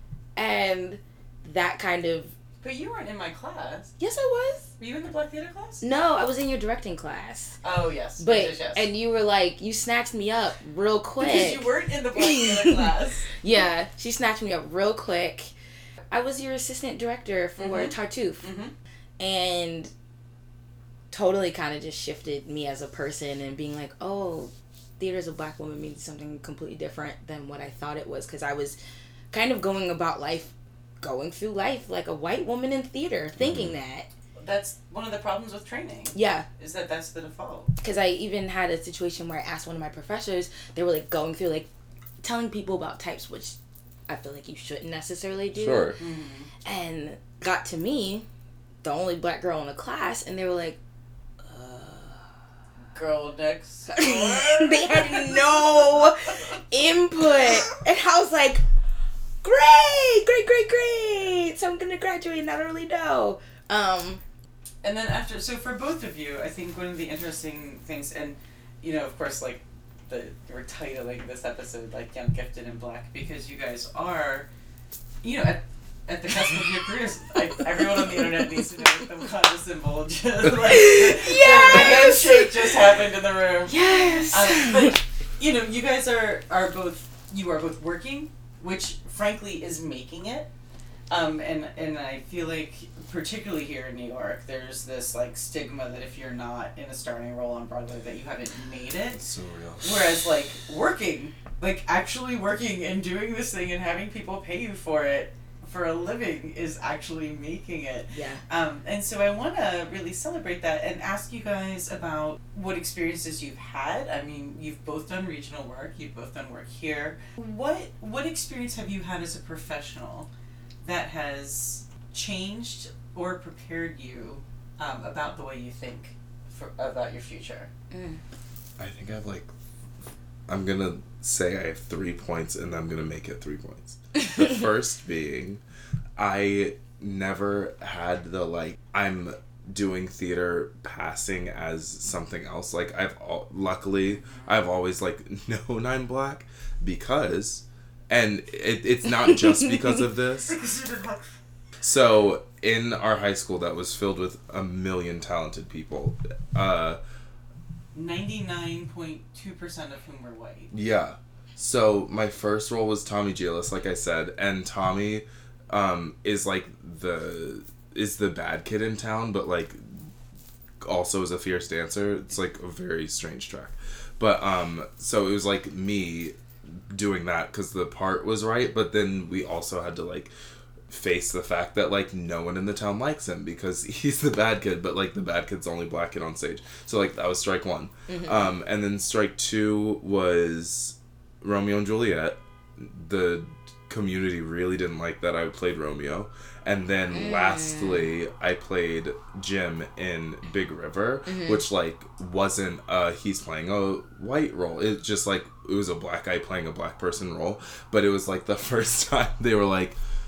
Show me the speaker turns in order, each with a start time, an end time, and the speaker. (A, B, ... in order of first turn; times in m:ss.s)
0:00.4-0:02.3 A
0:02.6-0:03.9 B
0:04.0-0:04.7 A
0:04.8-0:05.8 B
0:05.8-0:07.6 A
0:07.6-0:08.9 B
0:08.2-0:15.5 A
0:11.2-0:13.4 B
0:16.1-0:18.5 A
0:17.6-0:18.7 B
0:19.2-0:19.9 A
0:21.1-0:28.8 A
0:29.3-0:34.1 A
0:33.4-0:33.7 C
0:34.4-0:37.7 B
0:36.1-0:36.4 A
0:37.8-0:41.7 A
0:42.2-0:43.6 A
0:44.1-0:45.9 A
0:45.5-0:46.0 C
0:46.0-0:46.5 B
0:46.6-0:48.3 A
0:48.8-0:50.8 A
0:51.4-0:52.3 A
0:52.9-0:55.8 B
0:53.9-0:58.6 A
0:59.4-1:04.2 A
1:04.8-1:14.5 B
1:15.2-1:30.5 B
1:20.6-1:22.7 A
1:23.6-1:24.9 A
1:31.1-1:39.2 B
1:39.2-1:40.1 C
1:39.8-2:00.3 B
1:48.1-1:48.4 A
2:00.8-2:07.7 B
2:07.9-2:08.2 A
2:08.8-2:09.5 C
2:10.5-2:15.6 C
2:16.2-2:30.6 C
2:24.1-2:24.6 B
2:30.4-2:31.3 B
2:31.8-2:37.0 C
2:37.9-2:40.7 B
2:40.7-2:50.1 C
2:50.8-3:00.3 C
3:00.9-3:30.0 C
3:08.1-3:08.5 A
3:17.1-3:18.1 A
3:21.2-3:21.6 A